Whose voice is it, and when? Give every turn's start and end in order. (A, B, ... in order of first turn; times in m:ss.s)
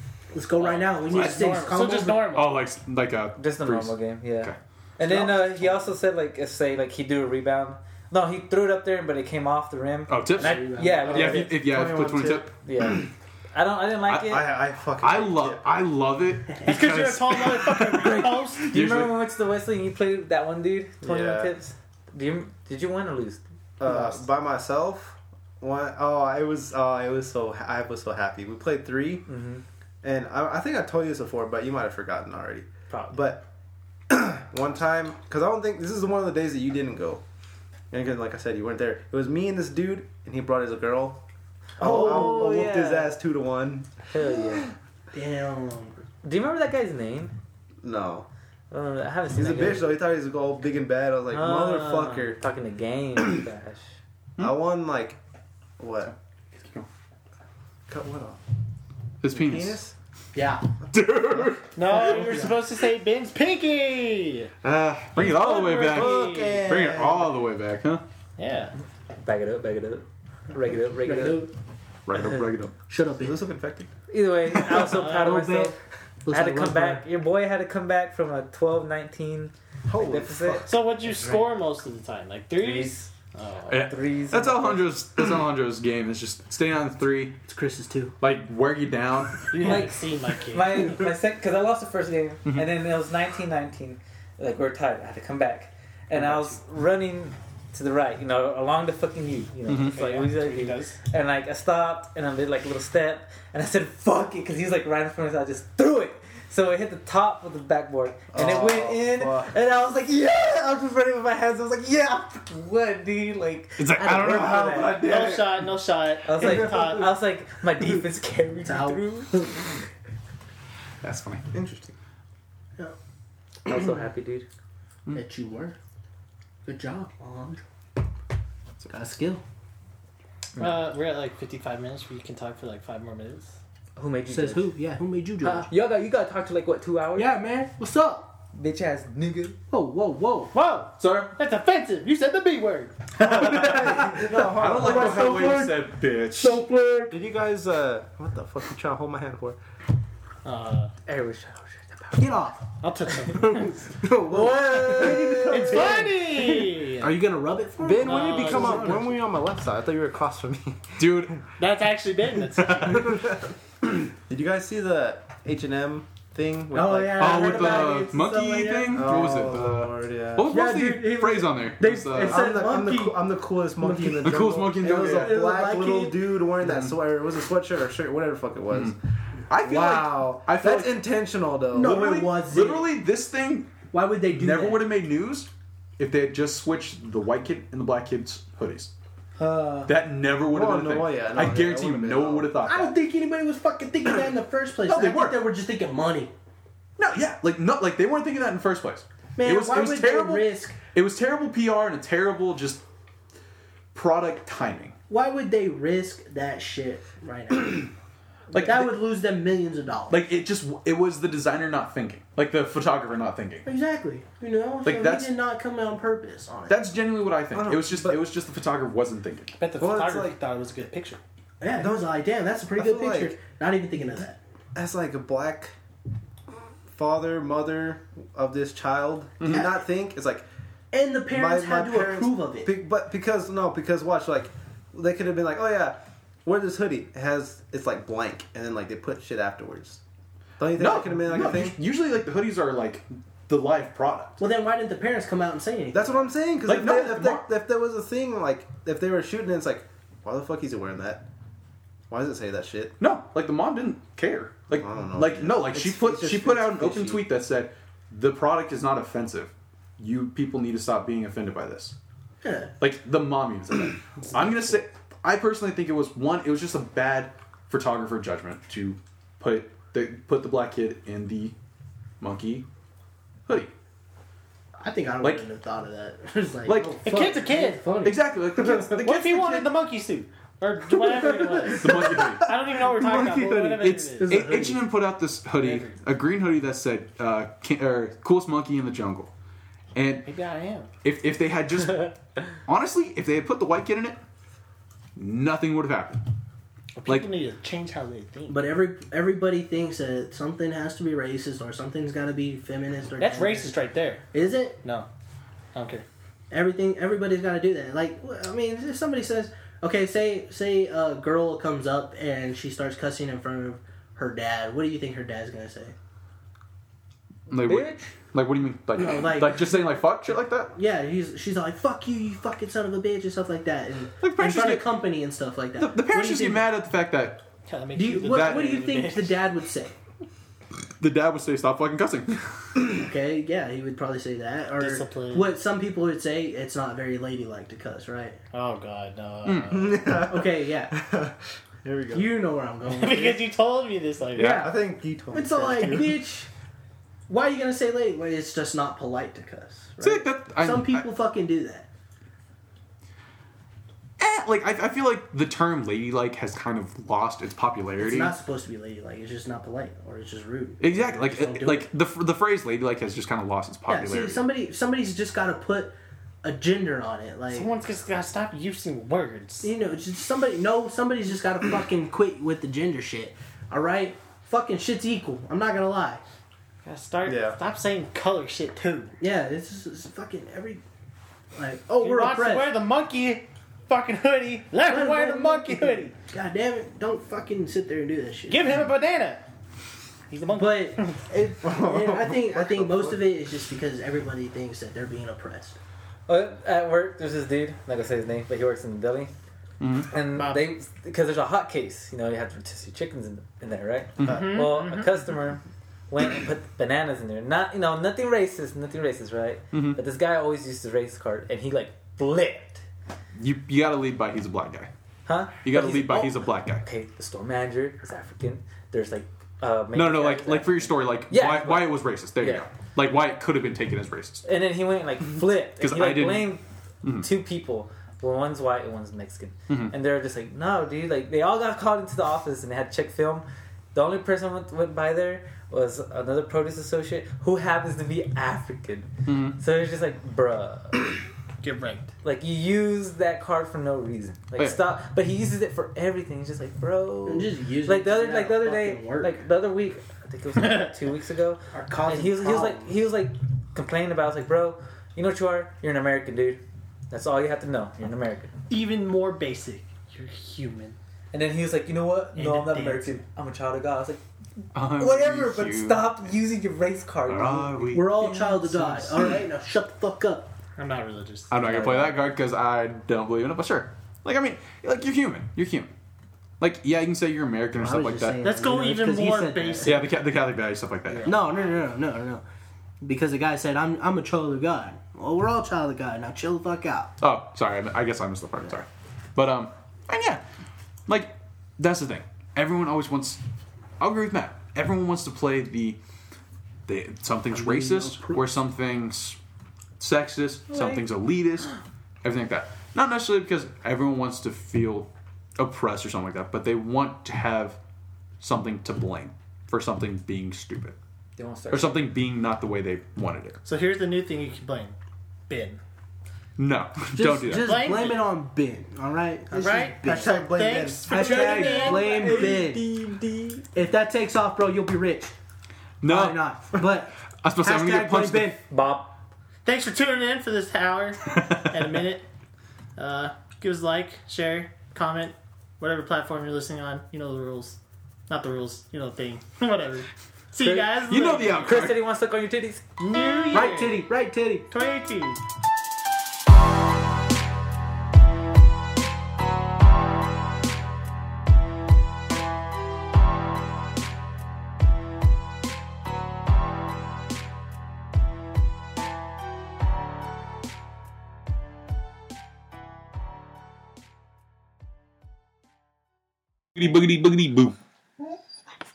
0:00.3-0:02.4 A
0:00.6-0:02.6 B
0:01.1-0:01.4 C
0:02.3-0:04.6 C
0:03.4-0:11.8 D
0:05.0-0:05.9 A
0:10.1-0:12.5 C
0:10.4-0:11.4 A
0:11.1-0:12.7 E
0:12.6-0:14.5 D
0:14.1-0:14.4 C
0:14.1-0:15.8 E
0:15.0-0:19.2 C
0:16.6-0:18.8 B
0:18.5-0:24.2 D
0:21.0-0:21.6 E
0:23.8-0:29.3 E
0:29.3-0:29.6 D
0:30.0-0:33.5 E
0:32.9-0:33.4 D
0:34.1-0:37.2 E
0:37.9-0:41.2 E
0:41.8-0:42.8 A
0:41.8-0:43.9 E
0:41.8-0:43.1 D
0:44.1-0:44.7 D
0:45.1-0:46.0 A
0:46.2-0:47.4 D
0:47.8-0:48.3 E
0:48.7-0:49.9 D
0:49.3-0:52.4 E
0:51.3-0:53.8 D
0:54.4-0:55.2 E
0:55.8-0:56.1 E
0:56.0-0:56.9 C
0:57.9-0:58.4 E
0:59.2-0:59.8 C
0:59.2-1:00.0 E
1:00.3-1:00.7 A
1:00.9-1:01.7 C
1:01.0-1:01.5 E
1:01.8-1:04.5 B
1:01.8-1:02.6 A
1:04.6-1:07.4 E
1:04.7-1:08.0 C
1:05.6-1:06.6 B
1:05.9-1:06.3 A
1:08.4-1:08.7 B
1:09.2-1:11.5 D
1:11.0-1:11.5 A
1:12.1-1:12.8 C
1:12.9-1:13.4 A
1:13.2-1:13.9 E
1:14.1-1:15.8 D
1:14.7-1:17.0 A
1:14.8-1:15.3 B
1:16.3-1:21.4 D
1:19.9-1:20.8 E
1:20.6-1:23.9 B
1:22.6-1:23.1 D
1:23.7-1:27.4 C
1:23.8-1:24.9 D
1:27.4-1:28.2 A
1:28.2-1:29.7 C
1:29.5-1:31.2 B
1:29.5-1:55.0 D
1:36.1-1:36.5 B
1:39.7-1:39.9 C
1:39.8-1:41.0 B
1:48.3-1:49.5 E
1:53.8-1:55.7 C
1:54.2-1:54.6 A
1:54.9-1:57.1 B
1:56.2-1:59.8 D
1:56.4-1:57.0 A
1:58.6-1:59.6 A
2:01.0-2:01.5 C
2:01.5-2:01.9 E
2:03.7-2:04.5 D
2:05.1-2:05.8 A
2:06.6-2:07.6 A
2:08.9-2:09.4 A
2:10.6-2:13.6 B
2:14.0-2:14.8 D
2:14.3-2:15.7 A
2:15.4-2:17.4 D
2:17.2-2:18.3 A
2:18.5-2:19.6 D
2:19.7-2:20.5 A
2:20.5-2:23.1 B
2:21.0-2:21.4 C
2:23.2-2:25.6 E
2:23.2-2:25.9 A
2:23.3-2:23.9 C
2:24.5-2:26.6 C
2:26.4-2:27.1 A
2:27.1-2:29.6 E
2:30.4-2:30.9 B
2:31.1-2:32.4 D
2:32.2-2:32.7 A
2:32.8-2:33.8 B
2:34.0-2:36.0 E
2:34.1-2:35.8 D
2:34.7-2:39.1 A
2:35.5-2:37.2 B
2:37.8-2:41.4 E
2:38.0-2:39.1 B
2:41.0-2:41.5 C
2:41.6-2:43.3 B
2:42.6-2:42.9 C
2:43.1-2:47.5 E
2:46.7-2:49.0 A
2:47.1-2:48.2 D
2:47.2-2:52.4 C
2:48.9-2:50.6 E
2:50.4-2:56.3 A
2:52.1-2:59.0 E
2:54.2-2:55.4 C
2:56.6-2:56.9 C
2:59.5-3:01.1 C
2:59.5-3:02.0 E
3:01.7-3:02.9 A
3:01.7-3:08.9 C
3:03.9-3:04.9 A
3:09.4-3:09.8 A
3:09.9-3:13.0 C
3:10.5-3:12.6 E
3:12.6-3:16.3 A
3:14.8-3:15.4 C
3:17.0-3:22.8 C
3:19.4-3:20.8 A
3:23.9-3:25.0 C
3:25.1-3:27.9 A
3:28.5-3:30.2 A
3:28.5-3:29.0 C
3:30.1-3:33.7 C
3:33.6-3:36.8 A
3:34.8-3:35.3 C
3:36.7-3:39.6 C
3:37.5-3:38.3 E
3:39.6-3:41.2 B
3:39.8-3:40.4 E
3:41.6-3:44.4 A
3:41.7-3:42.2 E
3:42.8-3:43.4 E
3:44.8-3:45.7 E
3:46.9-3:50.4 E
3:49.4-3:49.7 C
3:50.9-3:52.7 A
3:51.3-4:00.0 E
4:00.6-4:01.8 E
4:00.7-4:04.4 C
4:04.4-4:06.3 A
4:05.9-4:11.2 E
4:06.7-4:07.5 C
4:12.1-4:13.0 E
4:13.0-4:22.0 C
4:14.7-4:16.2 E
4:15.7-4:17.2 A
4:22.4-4:22.7 A
4:22.8-4:31.6 C
4:32.2-4:32.7 C
4:33.5-4:33.7 C
4:34.8-4:38.6 A
4:35.2-4:35.5 C
4:36.7-4:37.0 C
4:37.0-4:38.0 B
4:38.0-4:39.8 C
4:38.6-4:44.5 B
4:41.1-4:41.7 A
4:41.8-4:49.3 C
4:44.2-4:44.9 E
4:45.5-4:46.0 B
4:49.9-4:50.3 C
4:50.2-4:50.9 B
4:51.0-4:54.2 C
4:55.2-4:56.2 C
4:57.0-4:58.7 B
4:58.5-5:04.8 A
5:03.2-5:04.2 B
5:04.8-5:05.1 B
5:05.7-5:06.0 B
5:06.5-5:16.0 A
5:17.5-5:20.8 C
5:17.5-5:18.1 D
5:19.0-5:19.9 A
5:20.7-5:26.8 A
5:24.2-5:25.0 C
5:25.8-5:27.5 C
5:27.7-5:29.4 B
5:28.0-5:30.0 A
5:28.2-5:28.8 C
5:31.0-5:32.8 C
5:33.0-5:38.4 A
5:34.8-5:35.5 B
5:38.5-5:40.3 B
5:39.4-5:39.9 C
5:39.7-5:42.3 E
5:40.2-5:41.0 A
5:42.1-5:43.5 A
5:42.9-5:44.6 B
5:44.4-5:44.8 A
5:44.4-5:46.2 E
5:45.3-5:46.5 A
5:47.3-5:51.9 A
5:50.0-5:51.1 C
5:54.2-5:58.3 C
5:58.0-6:01.9 A
6:00.8-6:04.4 C
6:03.9-6:07.7 A
6:07.5-6:09.7 B
6:09.6-6:16.2 A
6:16.8-6:19.2 B
6:17.2-6:17.6 E
6:19.2-6:20.8 A
6:21.6-6:22.8 A
6:22.0-6:26.2 B
6:24.9-6:28.8 A
6:28.5-6:29.5 B
6:30.3-6:31.2 B
6:30.5-6:35.8 A
6:31.6-6:33.2 E
6:36.3-6:39.3 D
6:39.8-6:40.1 C
6:40.1-6:52.8 D
6:40.2-6:40.8 B
6:44.2-6:44.6 C
6:44.2-6:45.2 B
6:49.7-6:50.0 C
6:53.4-6:54.9 C
6:55.3-7:02.7 D
6:55.6-6:56.9 C
6:59.9-7:04.4 C
7:04.4-7:21.2 D
7:05.8-7:07.3 C
7:09.7-7:09.9 C
7:19.3-7:19.6 C
7:21.6-7:22.1 B
7:22.2-7:38.5 D
7:27.3-7:29.4 A
7:31.7-7:32.9 A
7:38.7-7:41.0 B
7:41.3-7:44.2 D
7:42.4-7:43.2 B
7:44.7-7:46.2 C
7:44.7-7:48.2 D
7:47.3-7:48.4 C
7:47.9-7:50.5 A
7:50.8-7:51.5 B
7:51.5-7:55.9 C
7:51.6-7:52.2 D
7:56.6-7:58.4 C
7:57.8-8:00.0 A
7:58.4-8:00.1 B
7:59.8-8:01.4 C
8:01.2-8:02.4 A
8:03.0-8:07.2 A
8:07.2-8:10.4 C
8:11.1-8:13.4 C
8:14.0-8:16.0 C
8:16.9-8:19.4 C
8:17.5-8:18.5 A
8:20.0-8:21.7 C
8:20.7-8:21.0 D
8:22.2-8:27.8 C
8:28.4-8:31.0 C
8:31.4-8:32.1 D
8:31.7-8:33.6 C
8:33.6-8:35.0 B
8:35.5-8:35.8 B
8:36.6-8:37.8 C
8:37.1-8:40.4 A
8:37.5-8:38.3 B
8:39.5-8:42.5 B
8:40.0-8:41.2 E
8:41.0-8:42.9 A
8:41.1-8:42.8 C
8:41.4-8:43.6 D
8:43.7-8:45.4 A
8:46.0-8:46.5 C
8:46.0-8:48.6 A
8:47.4-8:48.6 C
8:48.7-8:49.2 D
8:49.6-8:52.3 B
8:53.0-9:01.7 B
9:00.7-9:02.1 C
9:01.5-9:02.8 D
9:03.0-9:04.1 B
9:03.5-9:04.7 A
9:04.7-9:05.4 B
9:26.8-9:27.8 C